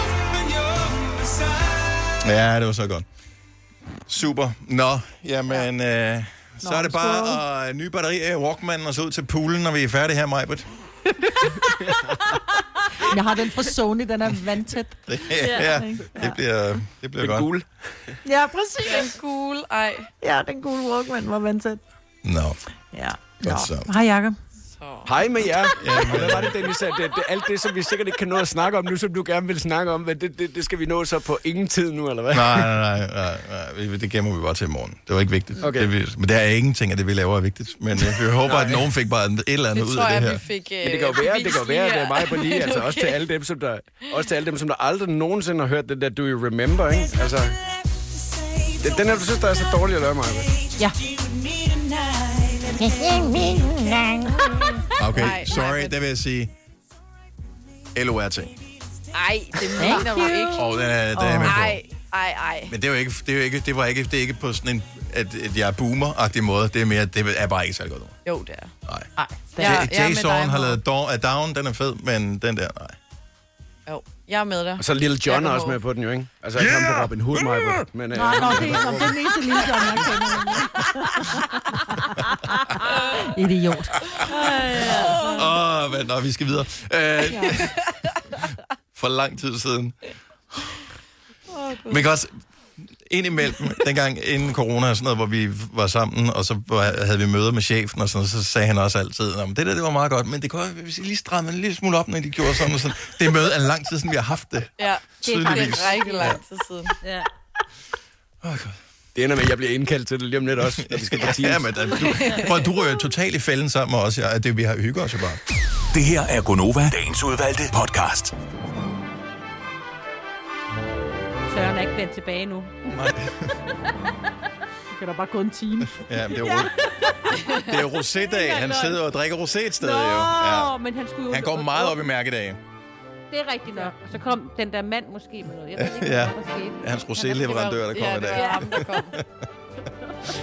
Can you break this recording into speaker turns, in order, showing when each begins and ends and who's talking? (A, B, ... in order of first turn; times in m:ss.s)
0:02.2-0:03.0 A
0:04.1-0:10.7 A
0:06.6-0:07.4 B
0:13.0-0:16.4 B
0:15.1-0:17.5 A
0:15.4-0:15.7 C
0:17.2-0:17.7 D
0:18.2-0:19.1 B
0:18.8-0:20.1 E
0:20.2-0:21.8 B
0:22.2-0:22.6 A
0:22.9-0:24.4 B
0:23.4-0:23.9 A
0:24.7-0:25.2 E
0:25.0-0:32.7 D
0:25.8-0:26.6 A
0:32.3-0:40.4 A
0:35.6-0:35.9 D
0:38.4-0:38.9 D
0:39.7-0:43.2 E
0:40.8-0:47.6 D
0:48.8-0:50.5 D
0:52.9-0:54.0 B
0:55.0-0:56.5 A
0:55.2-0:55.9 E
0:57.9-0:58.5 A
0:59.1-1:00.8 E
0:59.8-1:01.6 B
1:00.5-1:01.8 A
1:01.4-1:02.7 E
1:02.7-1:08.1 A
1:08.2-1:08.7 E
1:08.9-1:13.0 A
1:09.2-1:09.8 B
1:09.6-1:10.8 E
1:13.9-1:15.8 E
1:14.8-1:19.6 D
1:18.1-1:22.2 B
1:22.9-1:23.3 E
1:23.2-1:24.1 B
1:24.2-1:25.4 C
1:24.9-1:25.3 E
1:25.2-1:27.8 A
1:27.4-1:27.7 E
1:28.9-1:30.0 A
1:31.5-1:32.0 E
1:31.9-1:32.3 A
1:33.0-1:46.4 A
1:44.8-1:46.9 E
1:45.2-1:46.4 C
1:47.0-1:47.3 C
1:48.4-1:48.8 A
1:49.1-1:51.8 D
1:50.6-1:55.4 A
1:52.0-1:52.6 E
1:55.9-1:58.3 F
2:01.5-2:02.9 C
2:02.9-2:03.5 A
2:04.9-2:06.1 B
2:06.0-2:06.7 A
2:06.4-2:09.0 C
2:07.5-2:10.7 A
2:09.8-2:12.0 C
2:11.3-2:12.6 A
2:13.3-2:18.8 C
2:15.7-2:19.2 A
2:17.4-2:19.1 E